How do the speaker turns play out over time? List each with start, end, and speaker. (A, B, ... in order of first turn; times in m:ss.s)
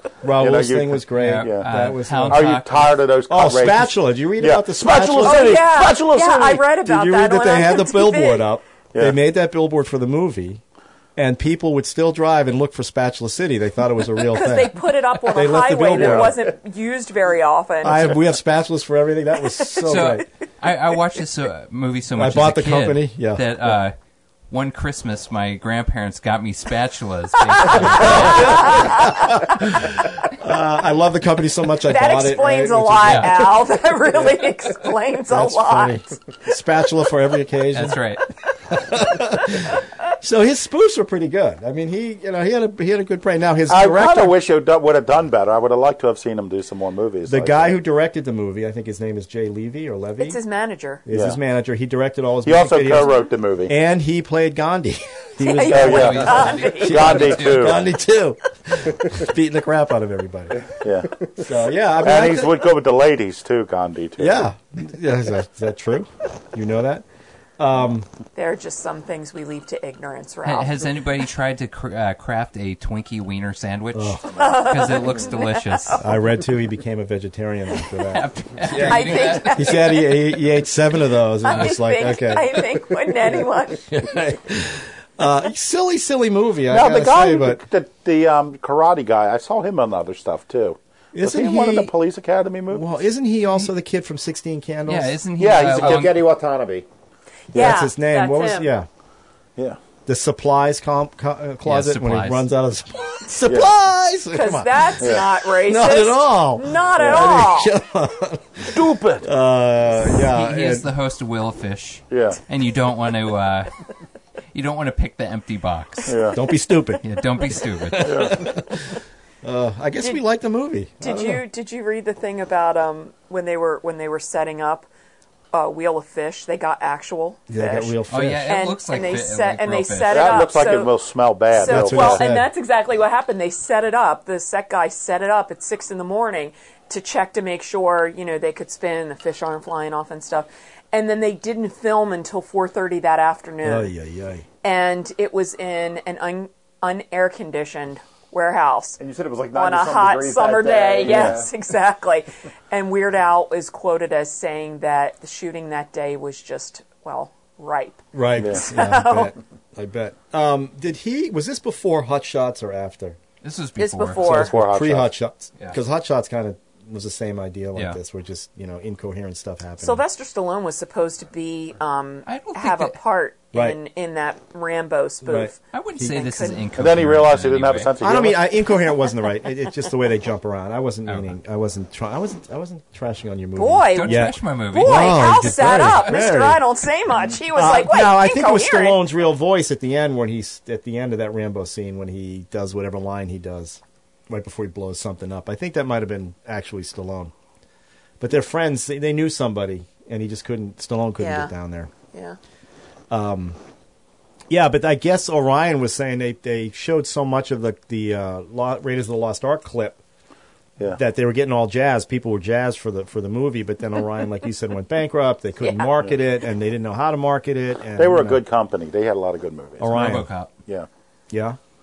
0:00.2-0:02.6 A
0:00.4-0:01.7 B
0:01.1-0:03.0 C
0:02.3-0:06.6 B
0:03.3-0:05.6 A
0:05.2-0:08.5 D
0:06.8-0:10.6 A
0:11.2-0:16.4 A
0:14.2-0:18.2 D
0:15.9-0:16.3 B
0:17.8-0:20.2 A
0:19.8-0:23.9 C
0:22.2-0:23.4 A
0:24.5-0:29.1 C
0:27.5-0:29.6 D
0:27.7-0:33.5 A
0:31.8-0:36.1 D
0:33.0-0:33.3 C
0:35.3-0:38.0 A
0:37.7-0:38.2 C
0:38.7-0:44.3 A
0:43.7-0:47.8 B
0:47.3-0:50.4 A
0:50.2-0:51.0 D
0:51.0-0:53.2 A
0:51.1-0:51.4 B
0:52.4-0:53.7 B
0:53.7-1:00.6 A
0:55.4-0:57.2 D
0:55.7-0:57.8 B
0:55.8-0:57.8 C
1:00.8-1:01.3 B
1:01.3-1:02.6 A
1:02.0-1:04.5 B
1:04.2-1:07.0 A
1:07.6-1:08.1 A
1:08.3-1:10.7 D
1:10.4-1:16.1 C
1:13.9-1:14.3 A
1:14.3-1:16.0 D
1:16.0-1:22.9 A
1:17.9-1:19.8 C
1:18.8-1:20.2 D
1:21.4-1:24.0 D
1:23.9-1:27.6 A
1:26.7-1:32.8 B
1:31.1-1:31.9 A
1:32.7-1:35.2 A
1:34.9-1:36.2 C
1:35.4-1:36.2 B
1:35.6-1:36.8 E
1:37.5-1:38.7 D
1:37.5-1:38.9 A
1:40.0-1:50.9 A
1:41.6-1:42.4 C
1:43.4-1:43.7 B
1:44.3-1:47.7 D
1:48.6-1:49.3 B
1:50.2-1:53.7 C
1:52.1-1:52.4 B
1:54.5-1:56.2 C
1:56.1-1:56.4 B
1:56.3-1:57.0 A
1:57.0-1:58.4 C
1:57.8-2:01.4 A
1:58.0-1:58.4 B
2:01.0-2:04.9 D
2:05.5-2:10.9 D
2:07.5-2:08.6 A
2:08.1-2:10.5 C
2:10.1-2:12.2 B
2:11.5-2:23.9 D
2:11.6-2:12.5 A
2:23.6-2:24.4 A
2:24.6-2:29.0 D
2:29.0-2:31.5 E
2:29.5-2:39.4 D
2:38.1-2:43.2 A
2:43.4-2:44.3 C
2:43.8-2:44.5 D
2:44.2-2:50.0 A
2:44.3-2:45.1 B
2:49.8-2:56.6 D
2:52.2-2:53.0 C
2:53.5-2:53.8 A
2:55.2-2:56.1 A
2:55.7-2:57.9 C
2:56.8-2:58.4 B
2:58.0-3:06.6 A
3:01.0-3:01.3 C
3:03.6-3:09.0 D
3:03.9-3:06.1 C
3:07.5-3:17.3 A
3:18.2-3:21.9 A
3:21.2-3:21.5 D
3:22.1-3:22.4 D
3:23.1-3:23.6 A
3:24.5-3:30.0 A
3:30.9-3:38.4 A
3:35.6-3:35.9 D
3:38.0-3:40.9 B
3:39.8-3:40.3 A
3:39.9-3:40.5 C
3:41.3-3:41.6 A